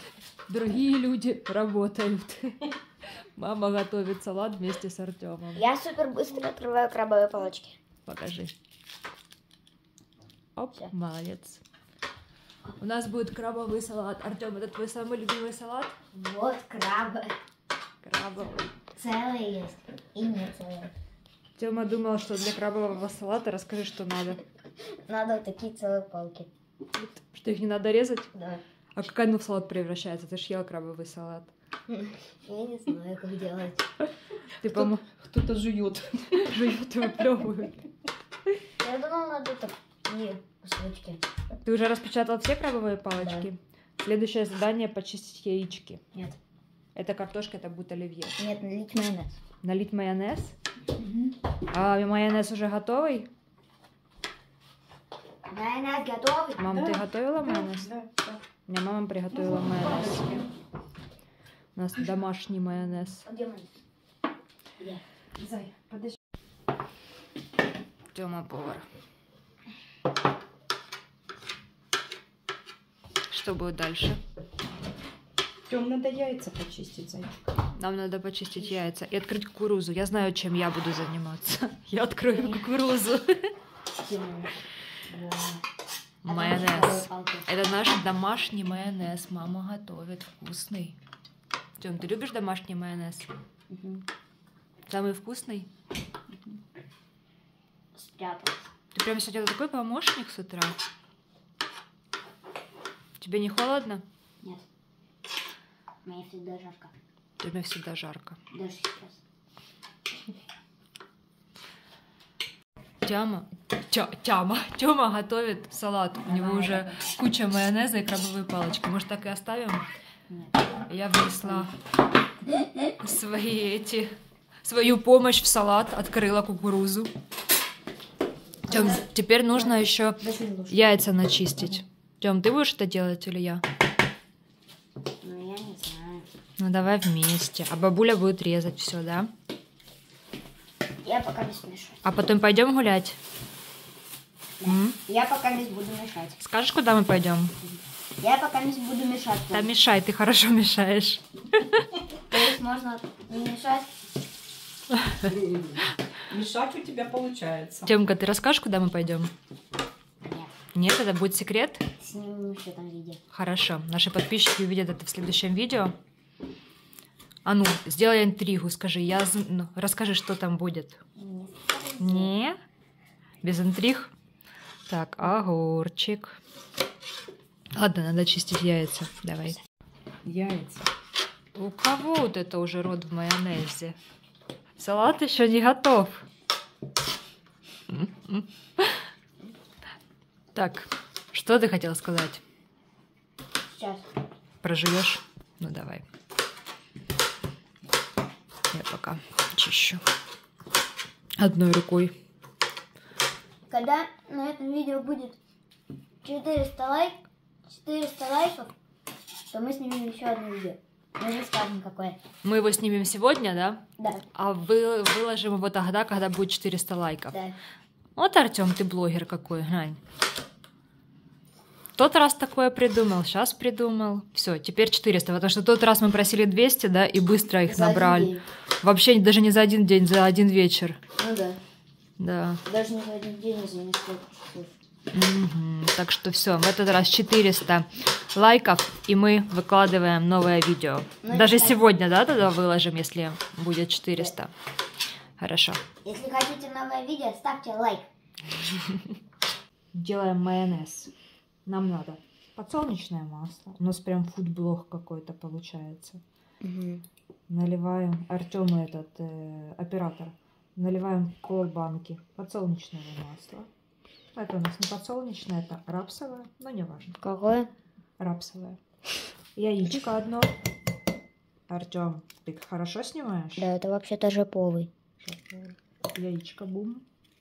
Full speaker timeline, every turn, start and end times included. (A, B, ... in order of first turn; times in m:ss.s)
0:00.5-0:05.6 A
0:05.5-0:07.8 B
0:08.0-0:08.5 A
0:10.6-0:11.6 A
0:12.8-0:16.0 A
0:16.1-0:17.3 B
0:18.0-0:18.7 A
0:18.9-0:20.9 B
0:21.6-0:24.4 A
0:24.8-0:26.5 B
0:27.0-0:28.3 A
0:28.3-0:28.6 B
0:28.9-0:31.5 A
0:31.9-0:33.8 B
0:34.6-0:35.0 A
0:34.6-0:36.5 C
0:36.3-0:37.8 A
0:38.8-0:41.2 B
0:41.6-0:46.0 A
0:43.2-0:43.5 B
0:46.9-0:48.4 A
0:48.4-0:49.3 B
0:49.6-0:50.6 A
0:51.7-0:53.3 A
0:55.4-0:56.6 B
0:56.6-0:57.9 A
0:56.6-0:58.4 C
0:58.7-1:00.4 A
1:00.0-1:00.4 C
1:01.8-1:03.2 A
1:03.0-1:03.7 B
1:05.4-1:06.2 C
1:08.1-1:08.8 A
1:13.3-1:14.2 A
1:15.7-1:17.5 C
1:17.8-1:23.5 A
1:22.3-1:22.6 B
1:24.0-1:25.6 B
1:26.2-1:31.0 A
1:26.2-1:27.5 B
1:31.8-1:33.3 A
1:33.7-1:34.0 B
1:34.9-1:35.7 A
1:36.3-1:36.6 B
1:37.9-1:38.7 B
1:38.9-1:40.8 A
1:43.2-1:44.0 A
1:46.0-1:46.9 B
1:47.4-1:48.4 A
1:48.5-1:49.2 B
1:53.0-1:59.9 A
1:56.2-1:57.1 B
2:00.3-2:01.7 B
2:00.9-2:01.7 A
2:02.9-2:07.1 A
2:08.7-2:13.6 A
2:08.7-2:09.0 B
2:09.6-2:10.8 B
2:15.2-2:16.2 B
2:16.6-2:19.3 A
2:21.0-2:22.0 B
2:22.0-2:23.2 A
2:24.6-2:26.4 B
2:24.6-2:25.0 A
2:26.4-2:27.6 A
2:28.2-2:29.7 B
2:29.5-2:31.9 A
2:32.3-2:33.9 B
2:35.3-2:35.8 C
2:36.3-2:37.9 C
2:37.8-2:39.3 A
2:40.2-2:40.5 B
2:40.7-2:41.9 A
2:42.0-2:43.2 B
2:43.3-2:45.9 A
2:47.4-2:51.0 A
2:51.2-2:52.3 B
2:52.0-2:52.6 A
2:53.4-2:54.1 A
2:54.9-2:56.4 A
2:57.7-2:59.6 A
3:00.2-3:00.9 C
3:01.5-3:04.0 A
3:04.8-3:06.2 A
3:07.9-3:09.0 A
3:10.5-3:12.4 A
3:13.7-3:14.0 B
3:14.6-3:16.0 A
3:18.7-3:20.0 A
3:21.4-3:22.1 A
3:23.7-3:25.4 B
3:26.2-3:28.7 B
3:29.5-3:32.2 B
3:32.4-3:37.4 A
3:34.0-3:34.2 B
3:37.3-3:37.6 B
3:38.2-3:40.0 A
3:42.0-3:51.0 A
3:47.6-3:48.4 B
3:51.2-3:51.6 B
3:52.2-3:52.6 A
3:52.6-3:54.7 B
3:55.1-4:04.5 A
4:01.2-4:01.8 B
4:05.4-4:05.8 A
4:06.0-4:08.1 B
4:09.9-4:11.1 A
4:11.6-4:16.2 A
4:16.6-4:17.0 B
4:17.5-4:23.7 A
4:24.3-4:27.2 A
4:27.2-4:27.7 B
4:28.2-4:28.8 A
4:29.6-4:30.5 A
4:31.7-4:33.7 A
4:33.6-4:34.9 B
4:35.2-4:37.0 A